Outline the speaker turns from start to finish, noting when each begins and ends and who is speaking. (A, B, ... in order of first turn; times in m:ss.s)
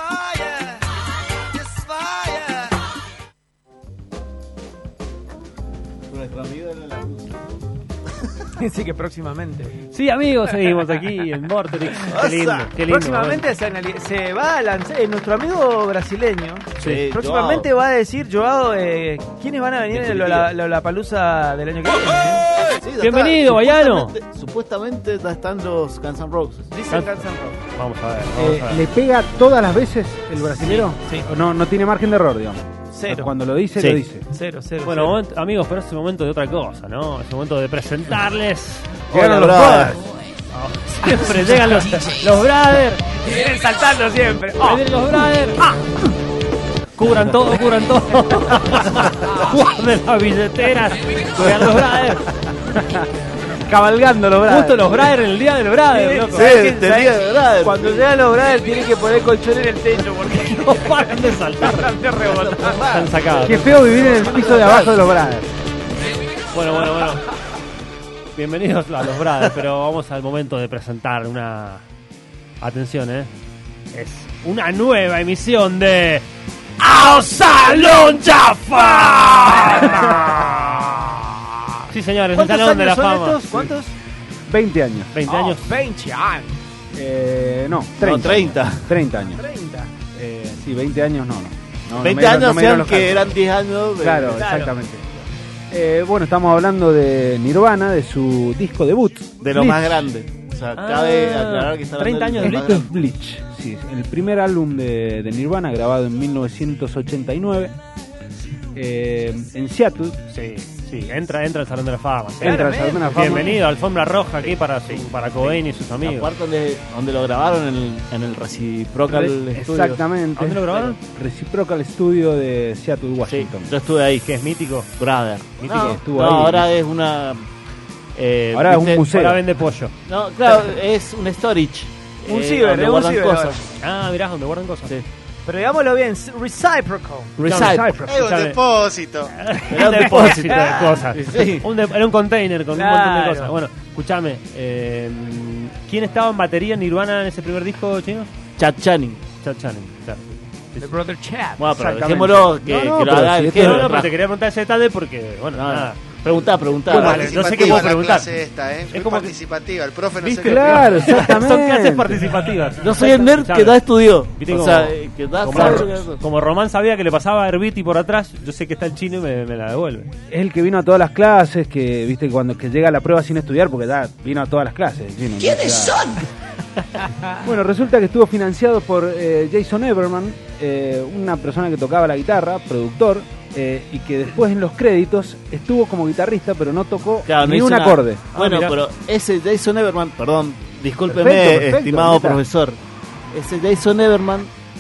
0:00.2-0:00.5 A
0:01.8-0:02.3 A
0:06.1-0:07.5 B
0:08.6-0:09.8 A
0:09.9-0:13.5 C
0:12.1-0:12.7 B
0:12.8-0:22.4 A
0:16.8-0:17.7 B
0:19.9-0:20.5 B
0:22.8-0:26.7 B
0:23.0-0:24.2 C
0:26.7-0:27.6 A
0:26.9-0:27.2 C
0:27.7-0:28.8 C
0:28.4-0:34.2 D
0:30.7-0:31.3 A
0:32.9-0:33.3 A
0:33.8-0:34.0 B
0:34.3-0:35.2 A
0:34.8-0:39.0 C
0:39.1-0:40.0 B
0:39.1-0:40.0 D
0:40.5-0:43.0 C
0:43.2-0:44.8 A
0:44.6-0:45.6 C
0:47.0-0:52.3 C
0:52.7-0:53.1 D
0:53.6-0:55.2 D
0:54.4-0:56.5 C
0:55.9-1:02.8 A
0:56.3-0:58.0 B
1:00.5-1:02.0 C
1:02.2-1:05.0 B
1:02.8-1:04.6 C
1:03.4-1:05.5 D
1:06.5-1:07.3 C
1:08.4-1:11.8 C
1:12.6-1:13.3 C
1:13.9-1:16.2 C
1:16.8-1:21.0 C
1:18.7-1:20.4 A
1:21.9-1:23.4 C
1:22.3-1:24.0 A
1:24.5-1:25.1 D
1:25.1-1:25.7 C
1:25.3-1:26.6 A
1:27.0-1:29.4 D
1:28.0-1:28.9 B
1:29.4-1:29.9 A
1:30.1-1:33.4 D
1:31.9-1:34.7 B
1:34.0-1:35.0 D
1:34.3-1:34.7 A
1:35.7-1:40.1 D
1:39.4-1:42.9 B
1:40.8-1:42.9 C
1:42.4-1:47.7 D
1:48.7-1:50.2 D
1:50.3-1:56.3 C
1:52.4-1:53.6 A
1:52.4-1:53.6 D
1:54.4-2:00.0 B
1:59.1-2:03.7 D
2:00.4-2:01.0 C
2:03.2-2:04.3 B
2:04.2-2:04.9 C
2:05.0-2:07.5 B
2:05.6-2:06.0 C
2:05.7-2:06.7 D
2:08.2-2:09.1 B
2:08.5-2:09.4 D
2:09.1-2:09.9 C
2:10.1-2:13.6 B
2:12.3-2:13.6 A
2:13.8-2:15.0 C
2:15.4-2:17.4 A
2:17.4-2:18.1 B
2:17.4-2:18.7 C
2:17.5-2:18.1 D
2:18.0-2:19.3 E
2:19.3-2:28.3 C
2:19.7-2:21.7 B
2:20.0-2:21.1 A
2:22.7-2:23.5 A
2:28.6-2:29.2 B
2:29.4-2:30.9 C
2:30.8-2:31.7 A
2:31.6-2:34.1 B
2:31.7-2:33.9 D
2:33.5-2:39.4 C
2:35.6-2:37.9 B
2:36.9-2:41.2 E
2:40.2-2:50.1 C
2:40.4-2:42.3 D
2:42.8-2:46.2 B
2:50.3-2:56.2 D
2:57.4-3:08.3 D
3:07.3-3:12.8 B
3:08.3-3:08.8 C
3:11.1-3:12.4 D
3:13.3-3:14.5 B